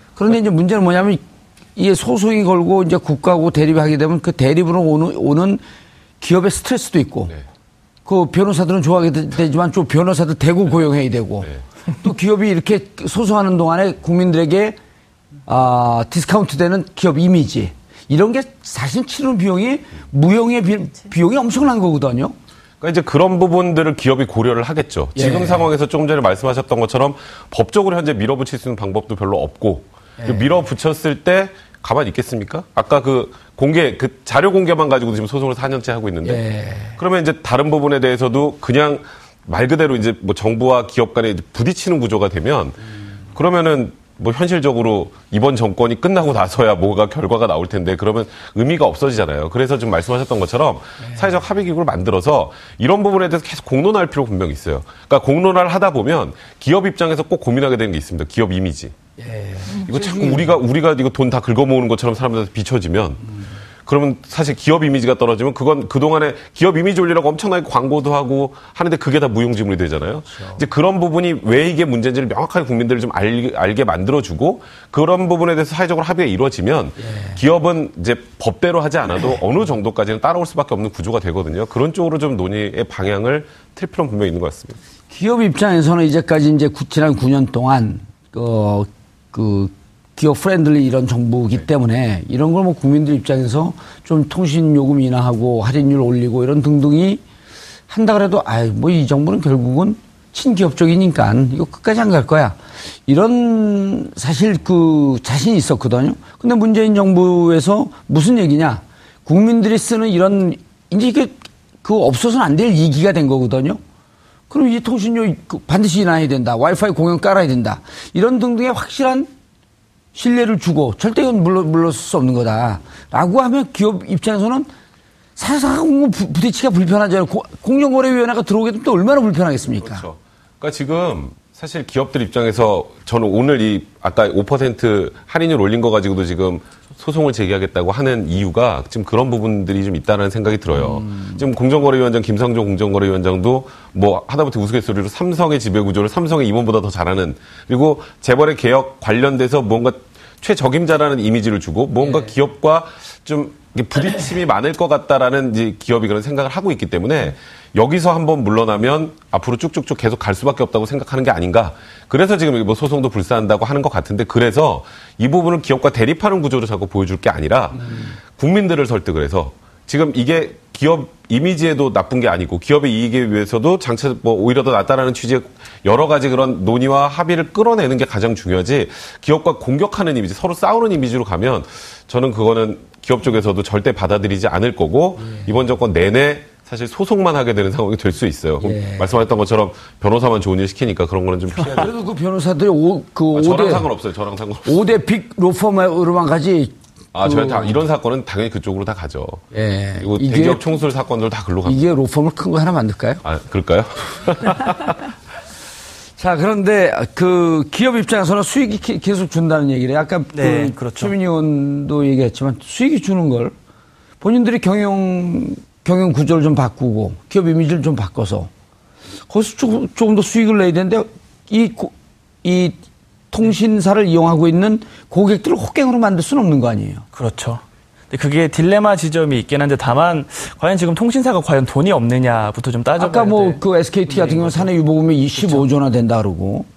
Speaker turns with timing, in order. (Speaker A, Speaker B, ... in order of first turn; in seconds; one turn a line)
Speaker A: 0.2-1.2
Speaker A: 1.8-5.6
Speaker A: 6.2-7.3
Speaker A: 8.1-14.8
Speaker A: 15.4-22.4
Speaker B: 22.8-36.4
Speaker A: 25.1-25.7
Speaker A: 30.2-30.6
Speaker A: 36.2-37.0
Speaker B: 37.0-42.8
Speaker B: 43.4-59.0
Speaker A: 51.0-51.4
Speaker A: 59.2-60.6
Speaker B: 59.9-63.3
Speaker B: 63.9-84.8
Speaker A: 70.3-70.6
Speaker A: 77.0-77.4
Speaker A: 85.1-97.2
Speaker A: 97.9-113.8
Speaker A: 114.5-119.3
Speaker A: 120.1-124.7
Speaker A: 125.4-130.1
Speaker B: 129.8-191.9
Speaker A: 140.7-141.5
Speaker A: 152.0-152.3
Speaker A: 167.8-168.1
Speaker A: 185.2-185.6
Speaker A: 188.6-189.2
Speaker A: 191.6-193.9
Speaker B: 193.3-194.9
Speaker A: 194.6-197.8
Speaker B: 197.1-199.4
Speaker A: 199.5-200.6
Speaker B: 200.0-201.8
Speaker A: 201.6-203.2
Speaker B: 203.2-205.1
Speaker A: 206.2-213.6
Speaker C: 210.3-211.1
Speaker A: 214.2-218.5
Speaker A: 219.3-222.8
Speaker A: 223.3-227.0
Speaker C: 227.1-234.7
Speaker A: 232.9-236.7
Speaker C: 235.4-235.7